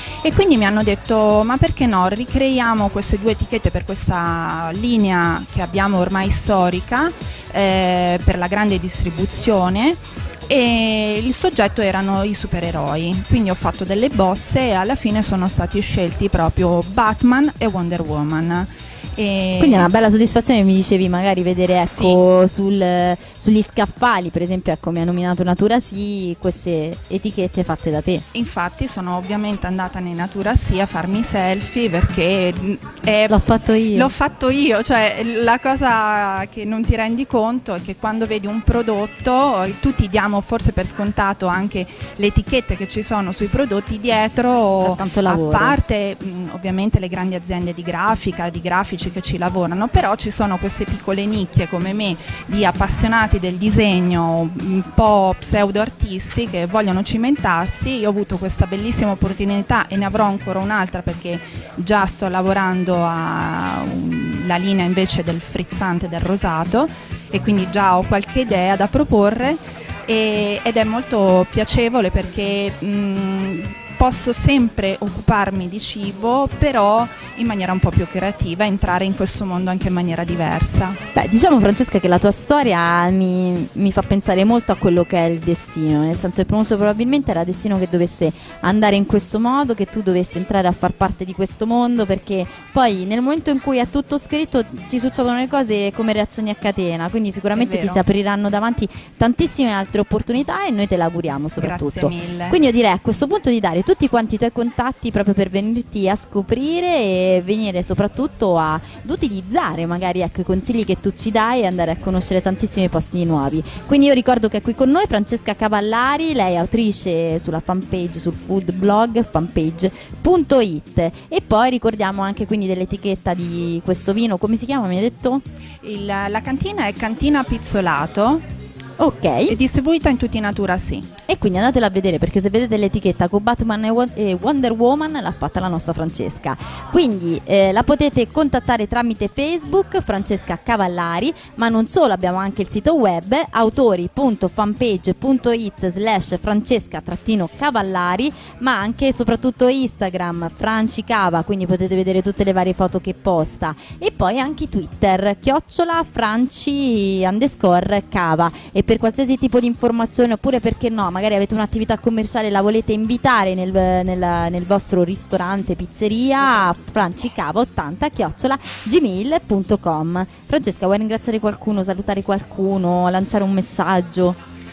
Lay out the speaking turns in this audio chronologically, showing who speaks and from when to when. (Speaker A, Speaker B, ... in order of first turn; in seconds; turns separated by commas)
Speaker A: 0.2-19.9, Speaker B: 19.6-28.2, Speaker A: 21.9-22.2, Speaker A: 28.3-81.0, Speaker B: 33.3-34.1, Speaker B: 44.8-45.8, Speaker B: 81.2-125.4, Speaker A: 97.5-98.0, Speaker A: 101.6-102.6, Speaker A: 125.8-128.4, Speaker B: 129.0-129.6, Speaker A: 129.5-131.1, Speaker B: 131.3-174.4